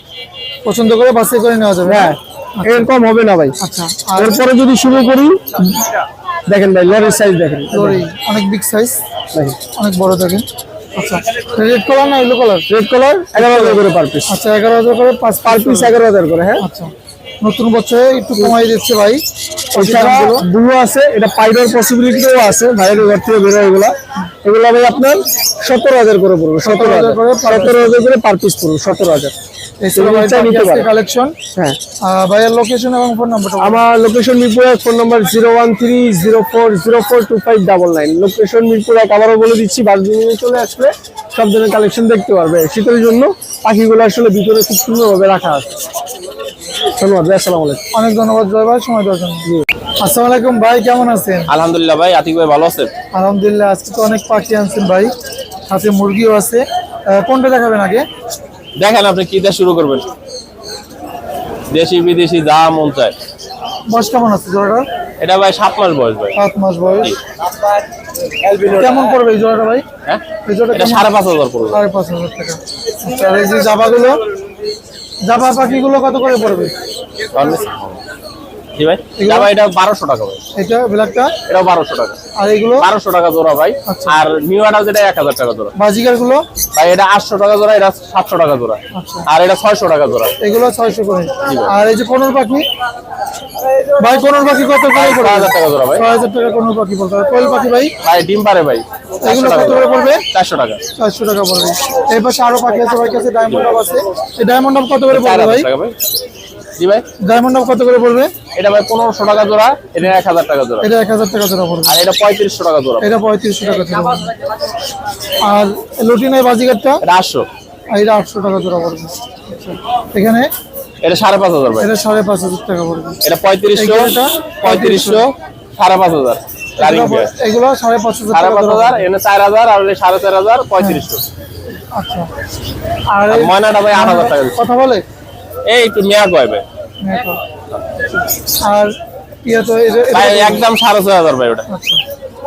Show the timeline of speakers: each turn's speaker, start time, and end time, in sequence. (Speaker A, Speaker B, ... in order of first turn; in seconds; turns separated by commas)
Speaker A: 0.6-2.1, Speaker B: 1.8-3.6, Speaker A: 3.6-4.3, Speaker B: 4.2-5.8, Speaker B: 6.5-8.0, Speaker A: 7.7-9.0, Speaker B: 9.3-9.6, Speaker A: 9.7-12.7, Speaker B: 12.7-14.4, Speaker A: 13.4-16.0, Speaker B: 15.4-16.6, Speaker A: 16.6-19.2, Speaker B: 19.7-29.3, Speaker A: 19.8-20.4, Speaker A: 26.6-28.0, Speaker A: 29.8-31.4, Speaker B: 29.9-30.9, Speaker A: 32.0-33.8, Speaker B: 33.6-45.8, Speaker B: 47.0-47.8, Speaker A: 47.9-49.5, Speaker A: 50.0-51.5, Speaker C: 51.5-52.9, Speaker A: 53.1-55.1, Speaker A: 55.7-58.0, Speaker C: 58.8-60.1, Speaker C: 61.7-63.1, Speaker A: 63.9-64.9, Speaker C: 65.2-66.4, Speaker A: 66.3-67.2, Speaker C: 68.5-69.2, Speaker A: 68.7-69.8, Speaker C: 70.1-71.8, Speaker A: 70.4-71.1, Speaker A: 71.7-74.2, Speaker A: 75.2-76.7, Speaker C: 77.3-78.0, Speaker C: 78.8-80.4, Speaker A: 79.2-79.5, Speaker A: 80.5-81.3, Speaker C: 81.5-82.2, Speaker A: 82.3-82.9, Speaker C: 82.8-85.7, Speaker A: 83.8-84.2, Speaker A: 85.8-86.4, Speaker C: 86.7-90.3, Speaker A: 88.9-89.2, Speaker A: 90.4-92.7, Speaker A: 94.0-97.9, Speaker C: 94.9-96.0, Speaker C: 98.0-100.8, Speaker A: 99.2-100.2, Speaker A: 101.0-105.7, Speaker C: 105.1-105.9, Speaker C: 106.8-107.0, Speaker A: 107.2-108.3, Speaker C: 108.5-110.9, Speaker A: 110.8-112.0, Speaker C: 111.9-113.1, Speaker A: 113.0-114.3, Speaker A: 115.5-117.0, Speaker C: 117.0-117.5, Speaker A: 117.9-120.5, Speaker C: 121.0-121.9, Speaker A: 121.8-123.2, Speaker C: 123.2-127.3, Speaker A: 123.7-125.2, Speaker A: 126.8-129.1, Speaker C: 128.3-131.2, Speaker A: 131.9-132.3, Speaker A: 133.1-135.0, Speaker C: 133.3-134.6, Speaker C: 135.7-136.6, Speaker A: 137.0-137.4, Speaker A: 138.6-138.9, Speaker A: 139.4-140.7, Speaker C: 140.1-141.6, Speaker A: 141.7-142.0